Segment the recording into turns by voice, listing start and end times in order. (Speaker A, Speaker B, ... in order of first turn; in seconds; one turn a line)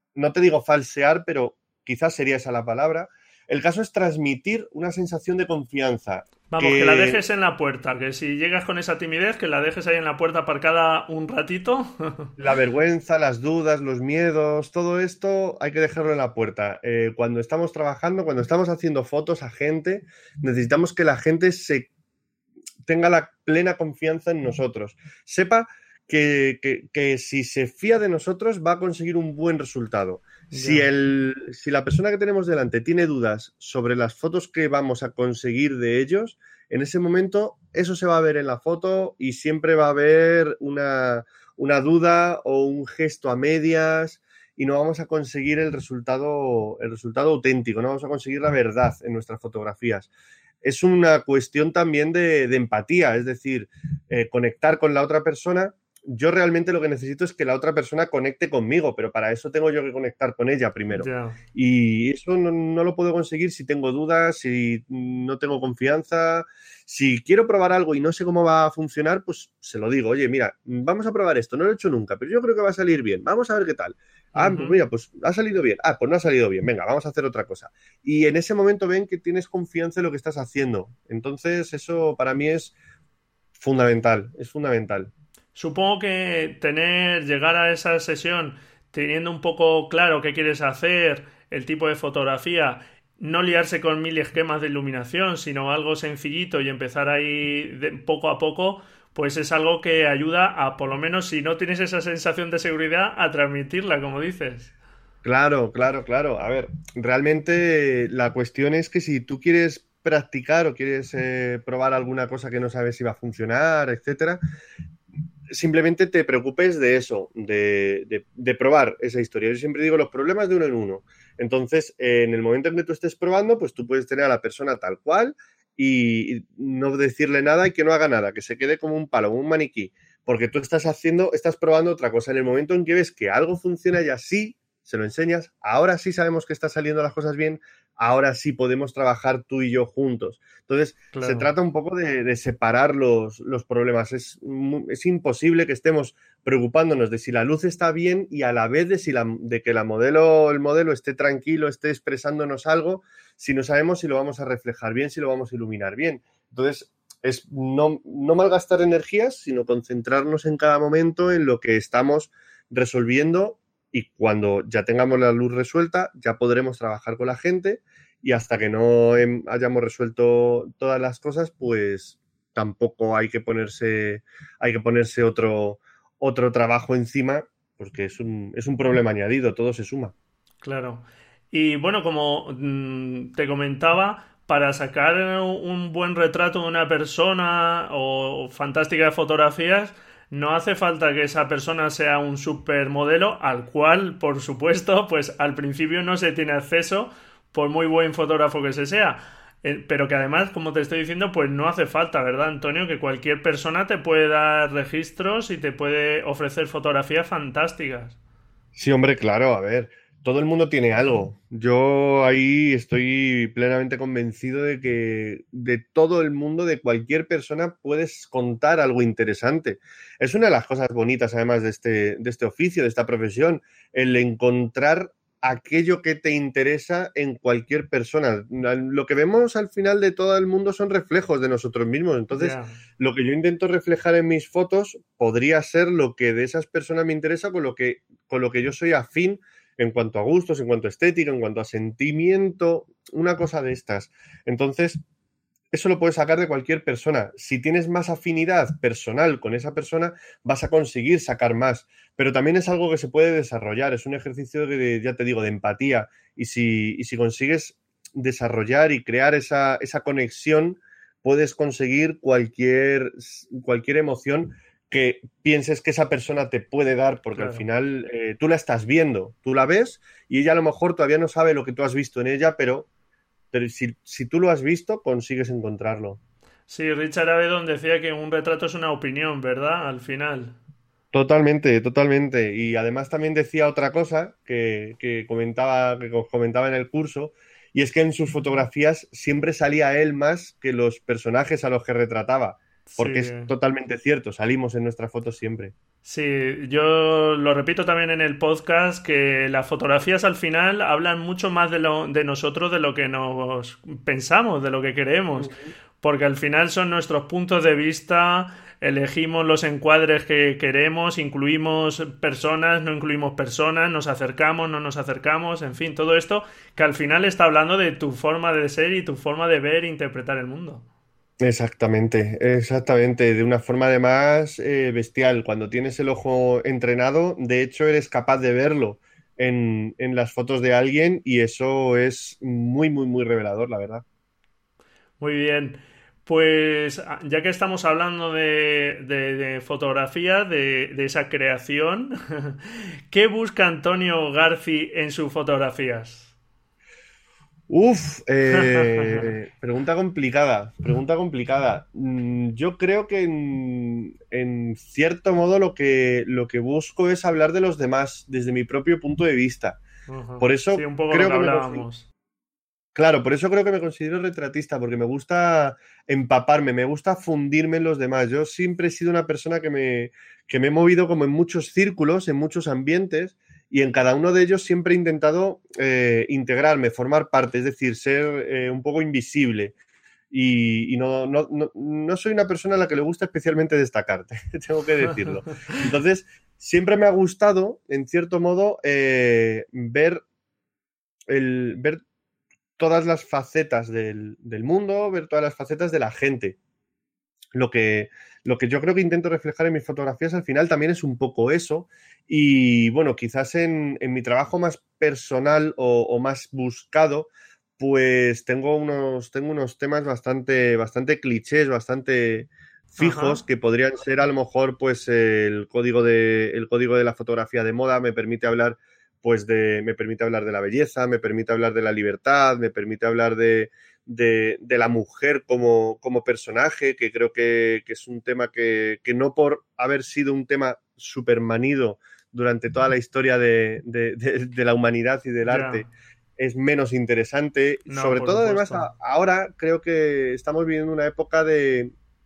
Speaker A: 0.2-7.2
Speaker B: 6.5-12.3
Speaker A: 12.4-21.9
Speaker A: 22.9-50.1
Speaker B: 30.5-30.9
Speaker A: 50.6-82.7
Speaker B: 61.0-61.4
Speaker B: 74.3-74.8
Speaker A: 83.6-85.1
Speaker B: 85.5-104.7
Speaker A: 105.2-114.4
Speaker A: 115.5-180.1
Speaker B: 141.1-141.5
Speaker B: 180.6-208.2
Speaker A: 208.8-245.0
Speaker B: 232.3-232.8
Speaker A: 245.7-272.9
Speaker B: 267.4-267.6
Speaker A: 273.5-276.2
Speaker B: 276.7-280.6
Speaker A: 281.1-295.7
Speaker B: 292.9-293.5
Speaker B: 296.0-320.9
Speaker A: 305.4-305.7
Speaker A: 321.4-334.0
Speaker B: 335.2-342.6
Speaker B: 343.1-346.3
Speaker A: 347.7-359.8
Speaker B: 348.6-349.3
Speaker B: 360.1-362.1
Speaker A: 360.4-361.8
Speaker A: 362.9-379.7
Speaker A: 380.3-390.2
Speaker B: 385.1-385.4
Speaker A: 391.3-392.0
Speaker A: 392.8-396.6
Speaker A: 397.5-441.9
Speaker B: 413.0-413.4
Speaker B: 435.5-435.9
Speaker B: 437.9-438.9